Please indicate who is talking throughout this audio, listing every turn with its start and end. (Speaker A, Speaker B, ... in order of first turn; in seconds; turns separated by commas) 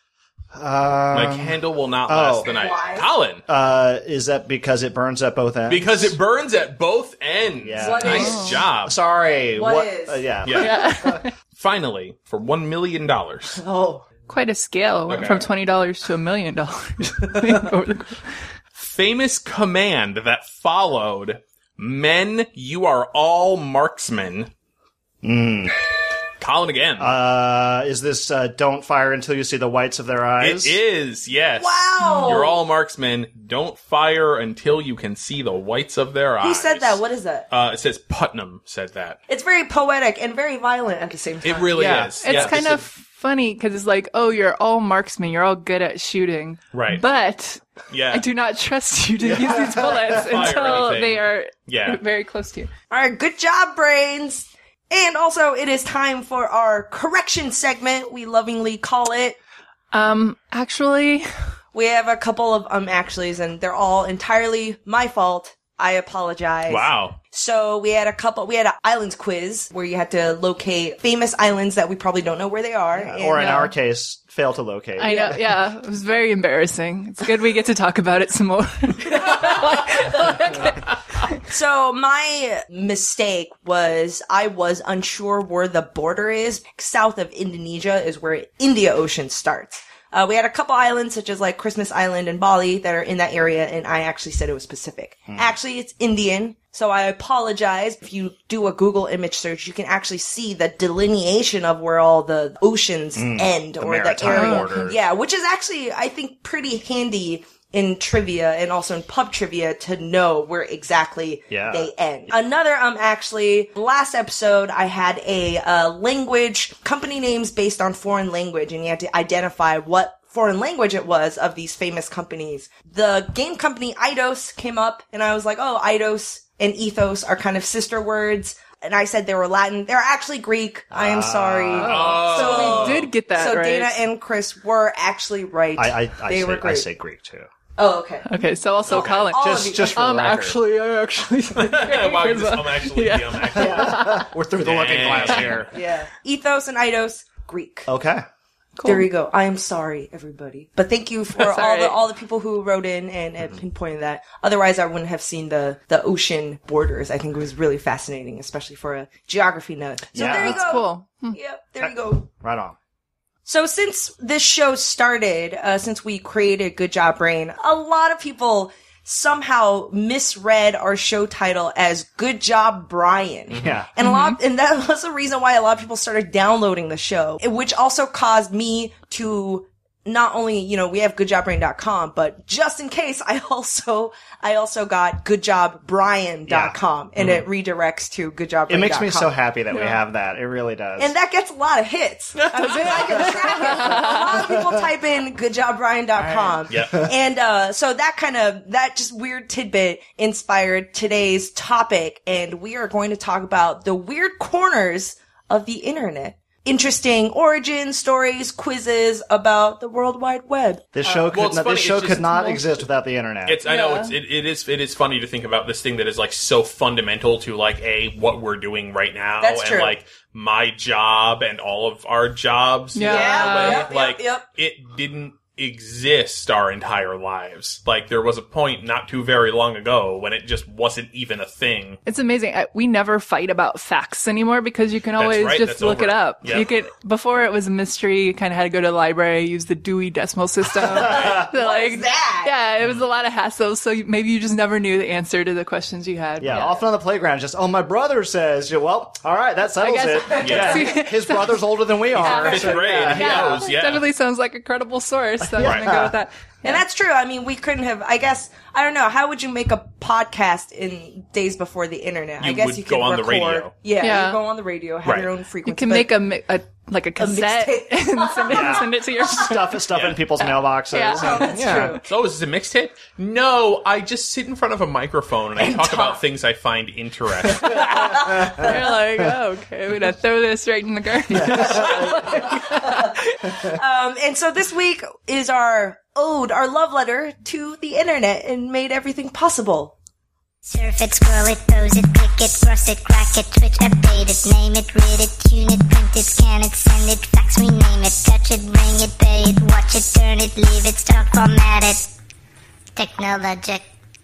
Speaker A: 0.5-2.6, Speaker B: 1.1-3.4, Speaker C: 2.5-3.1, Speaker A: 3.5-6.2, Speaker B: 5.7-9.0, Speaker A: 7.6-11.2, Speaker C: 7.8-8.4, Speaker D: 8.1-8.7, Speaker C: 9.6-10.2, Speaker B: 10.4-10.8, Speaker D: 10.6-11.3, Speaker B: 11.6-13.6, Speaker C: 13.6-14.1, Speaker D: 14.3-18.2, Speaker B: 15.1-15.5, Speaker B: 18.8-24.5, Speaker A: 25.2-25.8, Speaker B: 26.4-27.2, Speaker A: 27.0-30.8, Speaker B: 30.4-39.2, Speaker C: 31.6-32.6, Speaker D: 32.0-32.3, Speaker C: 36.4-37.5, Speaker C: 39.3-42.1, Speaker B: 41.4-42.9, Speaker A: 41.8-42.5, Speaker D: 42.2-52.7, Speaker B: 46.7-47.0, Speaker B: 47.9-48.2, Speaker A: 49.2-50.6, Speaker B: 49.8-52.0, Speaker C: 52.9-59.4, Speaker D: 59.9-61.3, Speaker C: 61.7-73.7, Speaker B: 66.7-67.2, Speaker A: 73.0-75.6, Speaker D: 73.4-73.7, Speaker D: 75.0-80.8, Speaker C: 81.5-136.9, Speaker A: 95.3-95.6, Speaker A: 103.2-105.0, Speaker B: 104.3-104.9, Speaker D: 104.3-104.7, Speaker A: 111.5-111.9, Speaker A: 130.9-132.2, Speaker D: 131.8-134.0, Speaker B: 131.8-133.1, Speaker A: 135.8-137.5, Speaker C: 137.8-138.3, Speaker D: 138.3-144.3, Speaker A: 138.9-140.6, Speaker C: 139.3-140.0, Speaker B: 141.6-144.1, Speaker A: 143.5-145.7, Speaker B: 144.6-145.7, Speaker C: 145.7-147.9, Speaker A: 147.9-148.2, Speaker D: 148.8-149.1, Speaker C: 148.8-162.3, Speaker D: 151.3-152.0, Speaker A: 160.1-160.8, Speaker D: 160.2-161.4, Speaker A: 161.8-162.8, Speaker C: 163.5-189.3, Speaker A: 173.6-173.9, Speaker D: 174.0-174.4, Speaker A: 186.5-186.8, Speaker A: 188.7-191.1, Speaker D: 189.7-190.0, Speaker C: 191.0-210.9, Speaker D: 192.6-194.3, Speaker A: 193.1-194.6, Speaker A: 196.2-197.1, Speaker B: 196.7-196.9, Speaker A: 210.9-213.6, Speaker B: 211.3-212.5, Speaker B: 213.5-232.0, Speaker D: 213.7-214.1, Speaker C: 219.4-220.0, Speaker D: 222.9-223.9, Speaker C: 223.0-224.4, Speaker D: 232.1-246.8, Speaker B: 235.2-236.7, Speaker A: 240.8-241.5, Speaker B: 241.0-241.4, Speaker C: 241.5-242.6, Speaker A: 246.4-253.7, Speaker D: 249.8-256.8, Speaker C: 250.3-250.8, Speaker B: 250.4-250.9, Speaker B: 252.2-254.1, Speaker A: 255.4-256.2, Speaker B: 255.6-255.9, Speaker C: 256.6-266.1, Speaker B: 262.4-263.7, Speaker D: 264.0-264.4, Speaker D: 265.6-269.9, Speaker C: 267.2-268.8, Speaker A: 268.5-272.0, Speaker B: 269.9-270.2, Speaker D: 270.9-272.0, Speaker C: 271.1-272.0, Speaker B: 272.1-277.9, Speaker C: 275.6-276.2, Speaker D: 277.7-283.4, Speaker A: 277.8-279.3, Speaker A: 281.3-282.5, Speaker C: 282.5-283.0, Speaker A: 283.5-283.7, Speaker C: 283.7-289.9, Speaker E: 290.6-302.1, Speaker E: 303.0-303.9